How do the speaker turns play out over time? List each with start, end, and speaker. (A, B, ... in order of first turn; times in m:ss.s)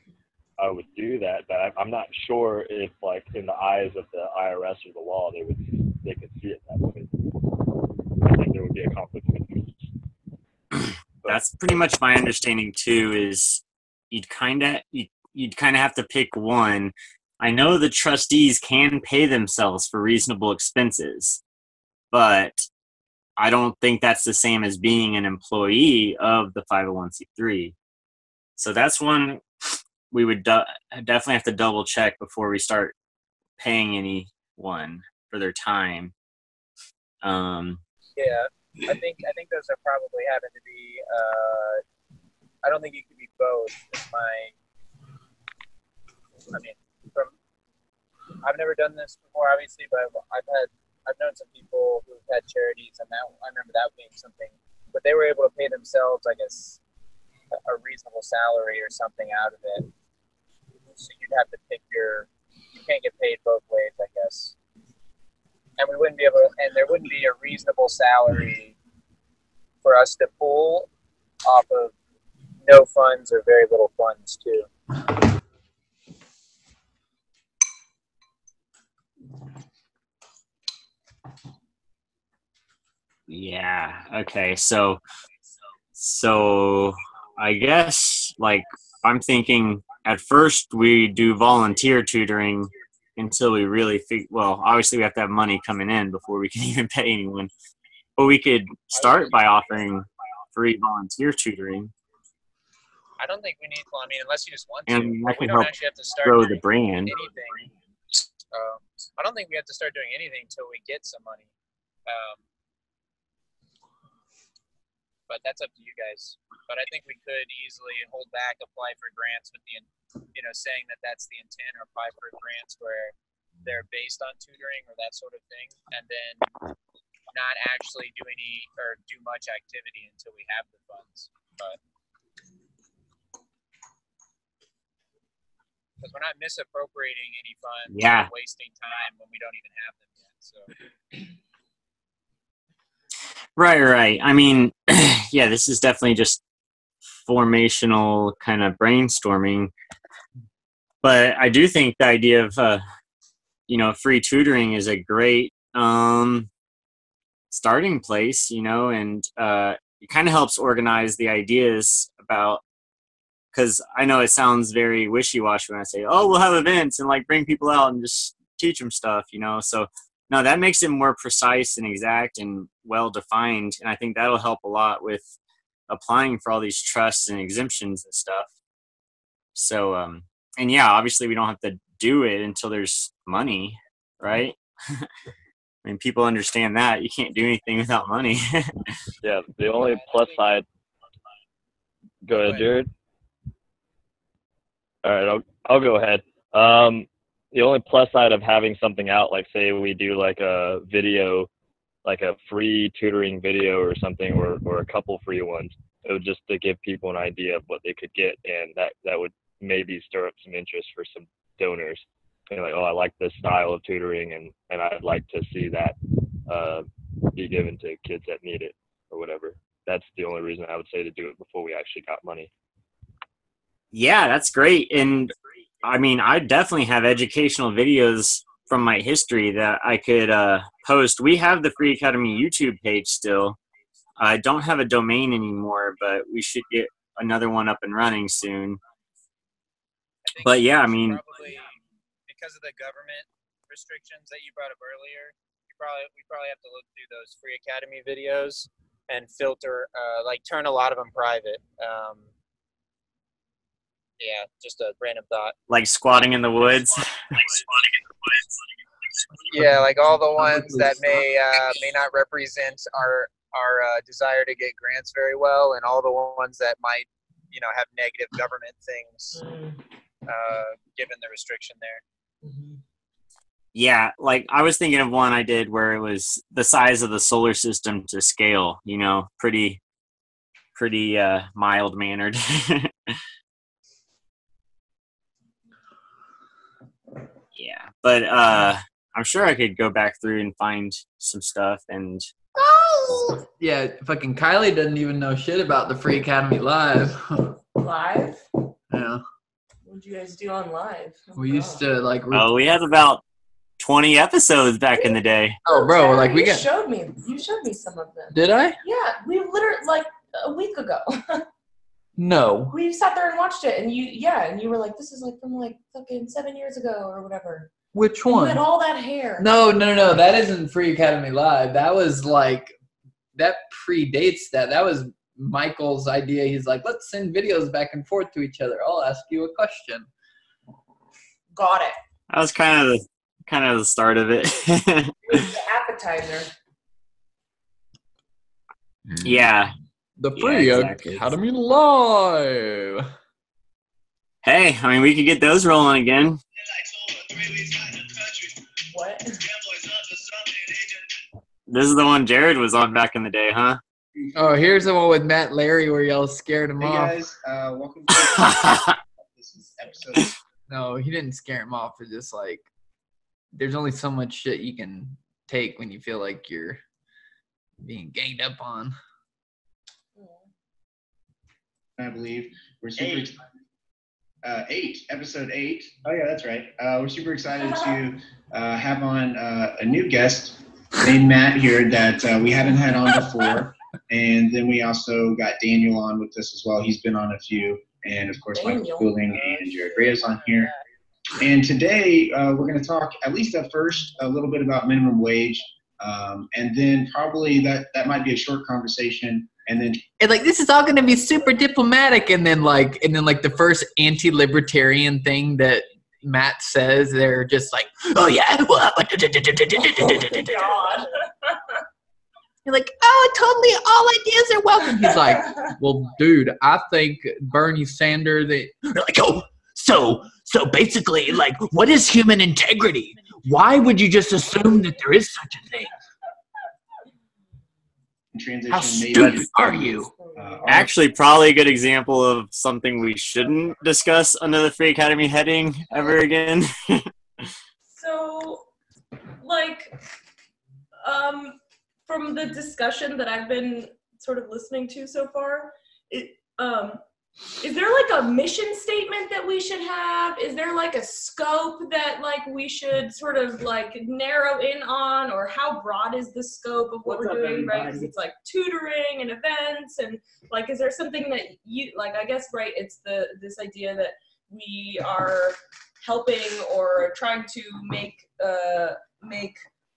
0:00.6-0:09.9 A
0:10.8-0:21.4 B
0:22.1-0:22.7 B
0:23.4-0:27.8 B
0:28.6-0:29.4 B
0:30.1-0:33.0 B
0:33.6-0:36.1 B
0:37.2-0:37.8 B
0:38.2-0:41.8 C
0:42.6-0:44.5 C
0:46.5-0:47.3 C
0:48.4-0:56.8 C
0:57.5-0:59.9 C
1:00.9-1:04.6 C
1:05.8-1:08.8 C
1:09.8-1:10.9 C
1:11.4-1:12.0 C
1:12.6-1:14.7 C
1:23.3-1:25.0 B
1:26.0-1:37.5 B
1:38.2-1:41.9 B
1:38.9-1:39.4 C
1:43.2-1:47.7 C
1:44.9-1:45.7 B
1:46.2-1:47.2 B
1:48.5-1:51.5 C
1:52.1-1:52.4 C
1:55.3-2:06.4 C
2:07.3-2:11.8 C
2:16.0-2:20.7 C
2:17.9-2:18.3 B
2:23.6-2:26.4 B
2:27.2-2:29.7 B
2:31.0-2:32.8 B
2:33.7-2:36.5 B
2:37.5-2:42.6 B
2:43.5-2:55.3 B
2:55.9-2:58.5 B
2:59.6-3:05.1 B
3:05.8-3:08.9 B
3:09.2-3:10.6 A
3:09.8-3:10.6 C
3:12.2-3:12.9 A
3:12.3-3:12.6 C
3:15.0-3:21.5 A
3:22.0-3:36.0 A
3:36.5-3:42.5 A
3:43.9-3:53.6 B
3:54.2-3:58.8 B
4:00.2-4:01.7 C
4:00.4-4:01.2 B
4:02.3-4:12.3 C
4:14.2-4:15.6 C
4:15.7-4:17.6 B
4:19.5-4:29.4 C
4:19.5-4:21.2 D
4:29.3-4:29.8 E
4:30.3-4:32.0 C
4:32.4-4:32.8 E
4:33.7-4:39.8 B
4:40.8-4:43.2 B
4:47.6-4:52.3 B
4:52.6-4:57.6 D
4:57.8-4:58.4 E
4:58.9-4:59.2 D
4:59.8-5:01.8 E
5:01.4-5:02.5 D
5:02.3-5:03.2 B
5:03.8-5:05.6 B
5:05.6-5:06.7 D
5:05.7-5:11.5 E
5:08.3-5:08.8 D
5:12.2-5:12.8 D
5:12.7-5:17.7 E
5:17.9-5:18.6 D
5:18.3-5:19.6 E
5:19.4-5:22.8 D
5:23.4-5:30.1 D
5:31.6-5:32.0 E
5:32.3-5:35.5 B
5:35.3-5:36.5 E
5:39.2-5:39.7 B
5:40.2-5:43.1 D
5:40.3-5:41.3 B
5:44.4-5:46.4 B
5:48.8-5:49.6 E
5:51.7-5:53.8 B
5:54.2-5:54.8 F
5:54.4-5:57.2 D
5:56.8-6:00.4 F
5:58.1-5:59.0 B
6:00.7-6:02.7 D
6:03.5-6:06.8 D
6:07.8-6:09.0 D
6:10.2-6:10.5 E
6:12.0-6:13.4 F
6:13.0-6:13.3 B
6:14.4-6:30.7 F
6:17.6-6:18.0 E
6:28.5-6:29.2 E
6:29.3-6:30.8 C
6:31.4-6:40.0 F
6:40.2-6:50.7 D
6:50.1-6:51.6 E
6:52.6-7:05.9 D
7:08.3-7:10.9 F
7:08.7-7:10.1 D
7:09.1-7:09.4 B
7:10.2-7:11.0 E
7:10.7-7:17.5 B
7:17.9-7:18.7 E
7:19.4-7:20.0 E
7:21.0-7:27.0 E
7:27.6-7:49.6 E
7:37.2-7:37.9 D